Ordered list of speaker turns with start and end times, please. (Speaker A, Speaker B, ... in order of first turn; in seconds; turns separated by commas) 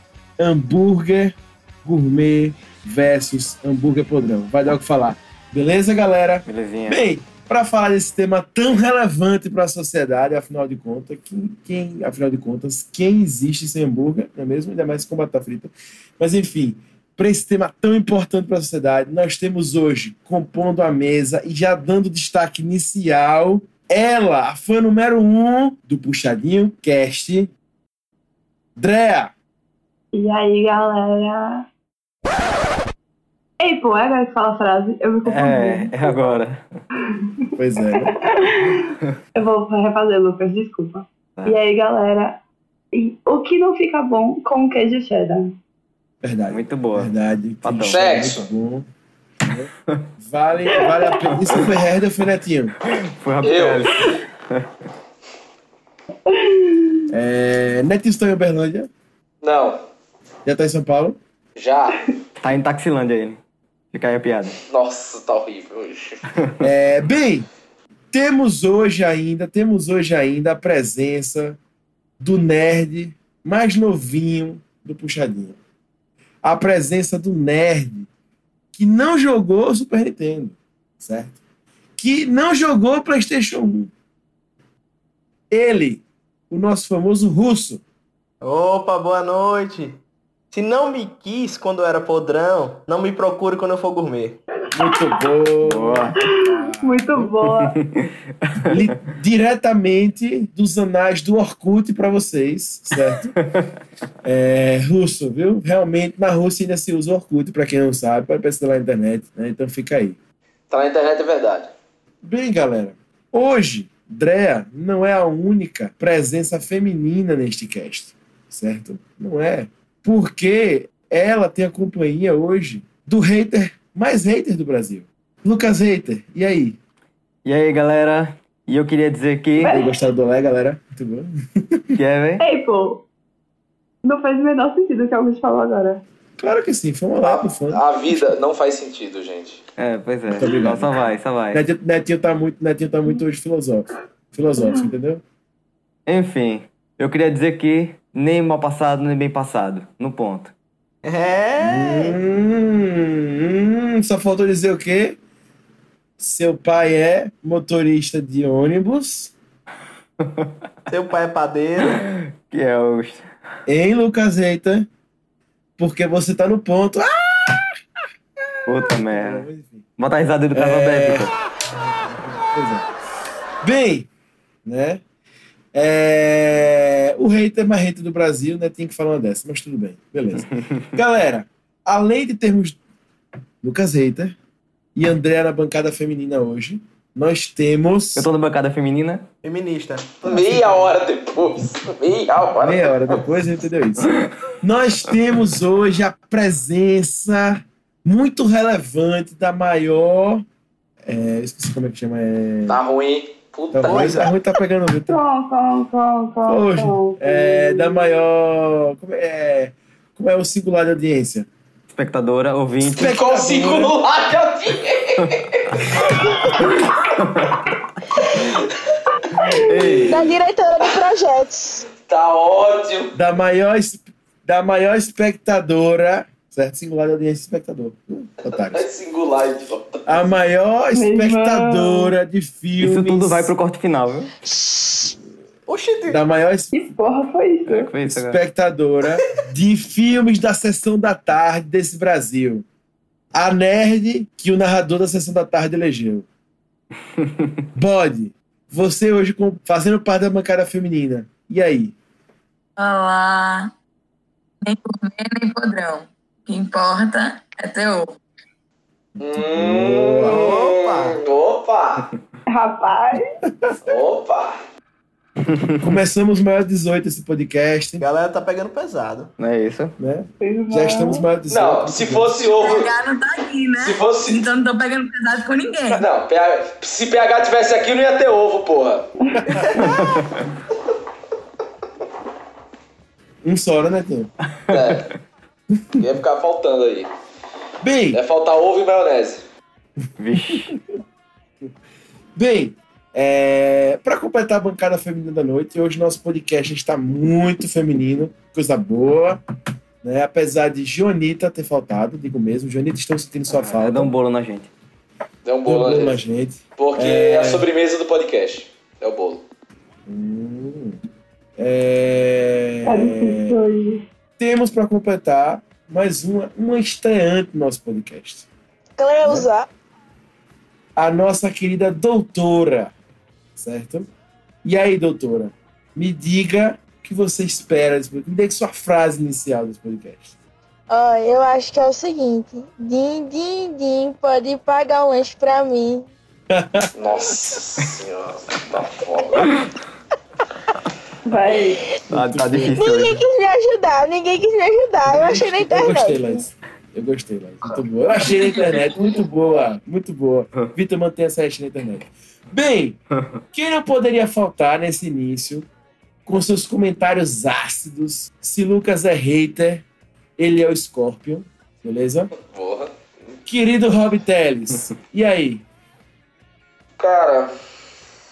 Speaker A: 0.4-27.5, Speaker B: 6.5-7.0, Speaker A: 28.8-29.3, Speaker C: 30.1-31.7, Speaker C: 33.6-36.4, Speaker B: 35.2-36.7, Speaker A: 37.6-38.1, Speaker C: 37.9-42.4, Speaker C: 42.9-45.6, Speaker A: 46.2-48.9, Speaker B: 46.5-47.1, Speaker B: 47.6-48.0, Speaker D: 47.9-48.5, Speaker A: 49.5-52.8, Speaker C: 50.7-51.4, Speaker B: 52.8-54.7, Speaker D: 53.4-54.1, Speaker C: 56.3-57.0, Speaker A: 57.1-58.9, Speaker D: 59.4-59.8, Speaker A: 60.5-61.2, Speaker D: 61.6-62.1, Speaker B: 62.4-63.4, Speaker B: 63.9-64.6, Speaker D: 64.7-66.2, Speaker A: 66.6-67.5, Speaker A: 68.1-71.6, Speaker A: 72.2-75.6, Speaker A: 76.4-78.1, Speaker A: 78.7-81.4, Speaker A: 82.0-83.9, Speaker A: 85.5-87.8, Speaker E: 88.4-90.0, Speaker E: 90.5-94.4, Speaker A: 94.7-97.3, Speaker C: 94.8-95.2, Speaker B: 95.6-96.1, Speaker C: 96.2-97.8, Speaker B: 97.2-98.9, Speaker A: 98.7-103.3, Speaker A: 104.2-110.2, Speaker D: 110.7-111.7, Speaker A: 112.2-126.8, Speaker B: 127.5-129.7, Speaker C: 129.6-129.9, Speaker A: 129.6-131.9, Speaker B: 131.9-132.4, Speaker C: 132.4-133.0, Speaker C: 134.0-136.0, Speaker A: 136.4-138.3, Speaker D: 137.2-139.6, Speaker B: 139.8-141.6, Speaker A: 140.3-145.2, Speaker B: 146.1-150.5, Speaker E: 151.0-152.2, Speaker A: 151.6-155.2, Speaker A: 156.2-159.3, Speaker B: 160.2-160.5, Speaker E: 160.9-162.0, Speaker B: 161.9-163.3, Speaker A: 163.7-164.9, Speaker A: 165.8-167.7, Speaker B: 168.7-171.3, Speaker A: 168.7-169.9, Speaker A: 170.5-171.3, Speaker A: 172.1-172.9, Speaker A: 173.6-174.1, Speaker A: 174.7-175.0, Speaker A: 175.7-182.8, Speaker A: 183.6-184.4, Speaker A: 184.9-188.3, Speaker B: 188.2-189.2, Speaker E: 189.4-190.8, Speaker D: 190.2-193.2, Speaker A: 192.6-200.4, Speaker A: 201.1-202.8, Speaker D: 202.7-204.3, Speaker A: 203.7-205.2, Speaker E: 203.8-204.3, Speaker C: 205.1-208.3, Speaker A: 206.4-211.5, Speaker B: 211.9-213.1, Speaker A: 212.8-213.9, Speaker D: 213.0-216.7, Speaker B: 216.6-217.5, Speaker D: 218.3-218.7, Speaker B: 219.6-220.3, Speaker D: 219.7-220.1, Speaker F: 220.1-221.9, Speaker D: 222.1-223.2, Speaker A: 223.1-228.8, Speaker D: 228.5-230.3, Speaker A: 230.1-233.5, Speaker C: 230.9-232.2, Speaker B: 232.8-234.3, Speaker F: 234.5-235.1, Speaker E: 235.7-236.2, Speaker A: 236.1-236.7, Speaker C: 236.7-237.9, Speaker B: 237.7-238.4, Speaker A: 238.1-242.7, Speaker A: 243.3-246.3, Speaker B: 247.2-247.5, Speaker A: 247.8-251.9, Speaker G: 252.8-253.7, Speaker G: 254.6-258.2, Speaker A: 259.2-260.4, Speaker D: 259.2-262.1, Speaker E: 260.2-261.2, Speaker C: 262.5-263.3, Speaker D: 263.8-264.6, Speaker B: 265.5-265.8, Speaker A: 265.8-268.1, Speaker E: 268.0-269.3, Speaker B: 269.4-269.9, Speaker A: 270.0-272.3, Speaker C: 270.4-271.3, Speaker D: 271.5-272.9, Speaker G: 272.5-276.1, Speaker D: 273.8-274.5, Speaker D: 275.9-279.1, Speaker A: 279.4-280.0, Speaker E: 279.5-280.1, Speaker B: 279.8-280.4, Speaker A: 283.4-284.3, Speaker D: 284.7-285.1, Speaker D: 286.0-287.1, Speaker A: 287.8-288.2, Speaker D: 288.1-289.4, Speaker B: 290.2-290.8, Speaker A: 290.5-290.8, Speaker A: 292.4-299.4, Speaker A: 300.0-304.1, Speaker B: 303.5-304.7, Speaker D: 305.4-306.2, Speaker A: 305.6-307.7, Speaker D: 306.8-309.4, Speaker A: 310.1-311.0, Speaker A: 311.6-313.6, Speaker C: 312.9-314.0, Speaker A: 314.4-318.5, Speaker F: 319.0-319.7, Speaker A: 321.0-322.9, Speaker A: 323.6-324.1, Speaker A: 324.6-330.3, Speaker F: 330.9-336.1, Speaker A: 336.5-336.9, Speaker D: 337.0-339.6, Speaker C: 341.3-341.8, Speaker B: 342.1-343.2, Speaker A: 342.1-342.8, Speaker F: 342.8-346.4, Speaker A: 345.1-353.0, Speaker A: 353.5-355.7, Speaker A: 356.3-359.8, Speaker A: 360.4-362.3, Speaker D: 362.4-362.9, Speaker A: 363.5-365.6, Speaker D: 367.0-367.5